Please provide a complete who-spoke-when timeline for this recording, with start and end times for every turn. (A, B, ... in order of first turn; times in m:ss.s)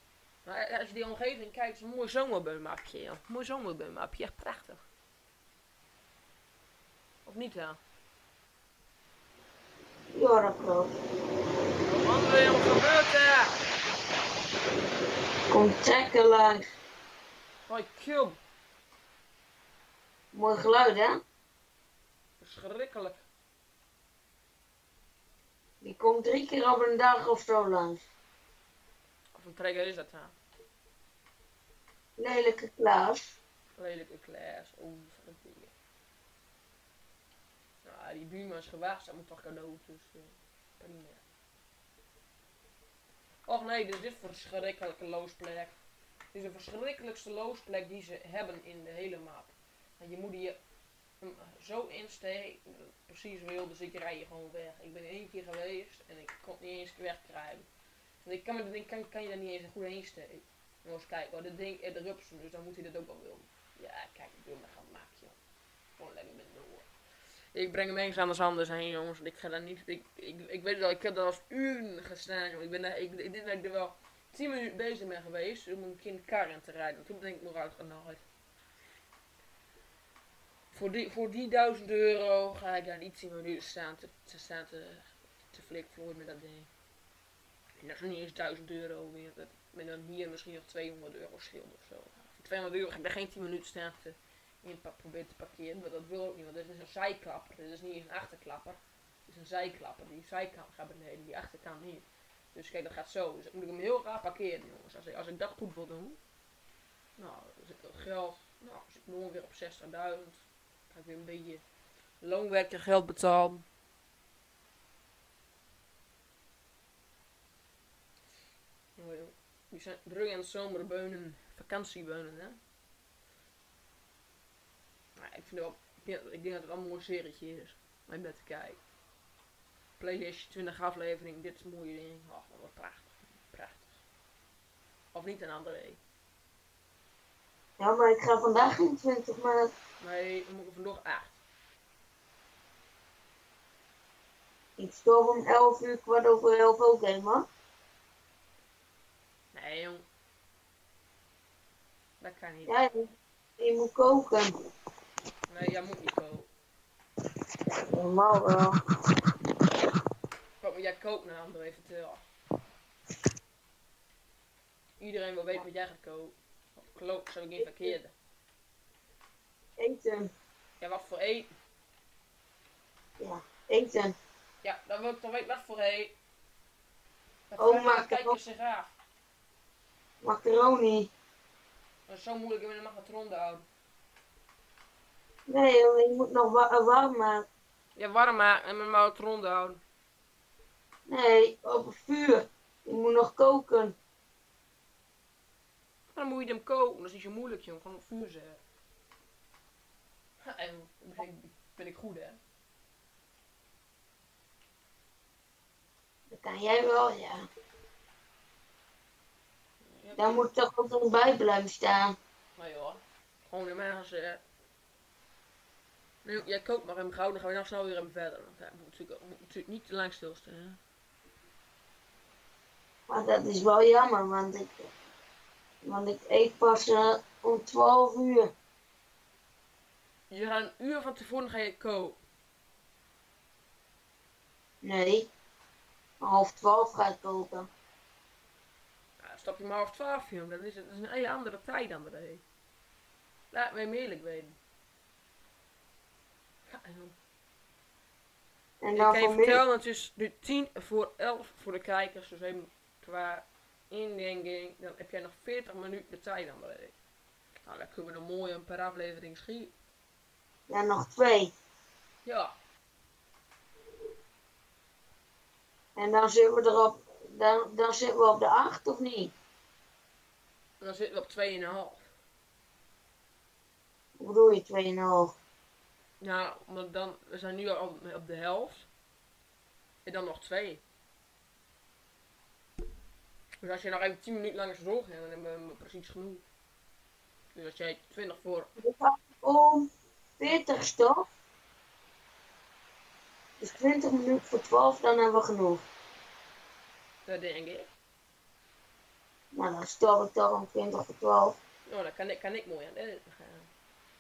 0:00.4-0:04.8 A
0:07.2-0:07.8 A
0:10.1-0:11.0 B
0:11.8-0:13.6 A
0:15.5-0:16.6 B
0:17.7-0:18.4 A
0:20.3-0:21.2 B
0:22.4-0:23.2 A
0:25.8-0:28.0 B
0:29.4-0:30.4 A
0:32.2-0:33.4 B
0:33.8-0:35.7 A
0:37.8-0:41.2 A
0:43.5-0:45.7 A
0:46.3-0:50.6 A
0:51.2-0:57.6 A
0:58.2-1:05.4 A
1:06.0-1:06.9 A
1:07.5-1:18.2 A
1:20.7-1:26.7 A
1:27.8-1:46.2 A
1:47.2-1:51.6 A
1:52.2-1:53.6 A
1:59.0-2:02.6 A
2:05.2-2:08.8 A
2:10.0-2:14.0 A
2:15.1-2:16.0 A
2:17.8-2:19.7 B
2:20.0-2:21.4 A
2:24.8-2:27.5 B
2:29.5-2:30.0 A
2:32.2-2:32.8 A
2:32.7-2:34.5 B
2:35.5-2:36.5 A
2:37.9-2:38.8 B
2:40.6-2:42.2 A
2:45.0-2:48.1 A
2:47.6-2:47.9 B
2:49.8-2:50.3 B
2:50.8-2:51.5 A
2:53.2-2:54.2 B
2:54.6-2:56.2 A
2:57.5-2:58.9 A
2:57.6-2:58.4 B
3:00.2-3:01.1 B
3:02.1-3:03.6 A
3:05.5-3:07.5 B
3:08.0-3:09.8 A
3:11.1-3:14.0 B
3:16.1-3:18.6 A
3:20.4-3:22.4 A
3:26.3-3:27.5 B
3:29.8-3:30.5 A
3:30.2-3:32.2 B
3:32.6-3:34.4 A
3:36.2-3:40.8 A
3:43.1-3:44.9 B
3:45.8-3:48.5 B
3:50.3-3:52.2 A
3:54.8-3:55.3 B
3:56.2-3:57.7 B
3:59.2-4:02.4 A
4:03.5-4:04.6 A
4:06.7-4:07.2 A
4:08.8-4:09.6 B
4:08.9-4:17.0 A
4:17.6-4:19.7 A
4:20.7-4:21.5 B
4:22.2-4:22.5 A
4:26.0-4:29.3 B
4:30.8-4:32.0 A
4:34.2-4:35.3 B
4:36.2-4:38.9 A
4:40.0-4:40.8 A
4:43.6-4:46.4 A
4:47.5-4:48.7 A
4:48.8-4:51.3 B
4:53.6-4:55.8 B
4:57.2-4:57.9 A
4:59.5-5:01.6 B
5:01.9-5:03.7 A